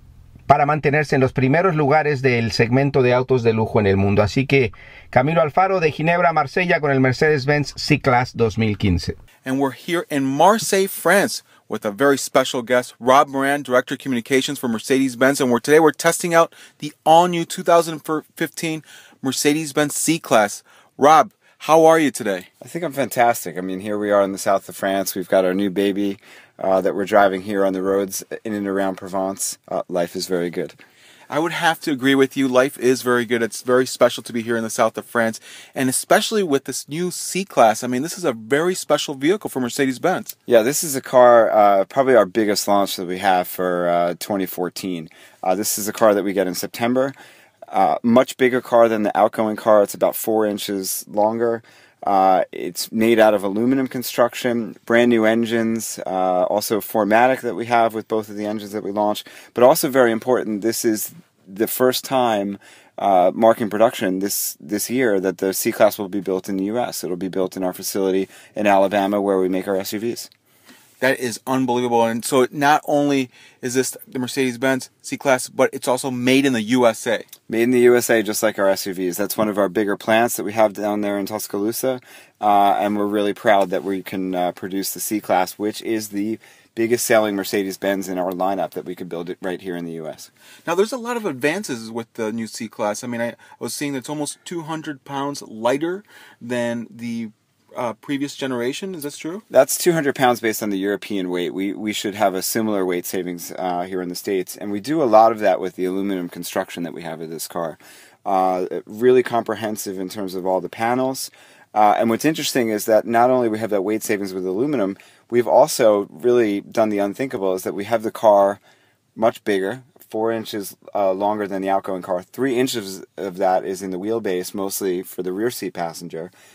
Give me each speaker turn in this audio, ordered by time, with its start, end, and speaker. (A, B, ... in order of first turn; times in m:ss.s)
0:00.5-0:09.2 A
0:09.4-0:22.5 B
0:22.6-0:30.8 C
0:31.3-0:40.3 B
0:40.5-0:47.1 C
0:47.7-1:10.3 C
1:11.0-1:17.3 B
1:17.5-1:30.3 C
1:30.6-1:39.4 B
1:39.5-1:58.6 C
1:59.2-2:06.3 C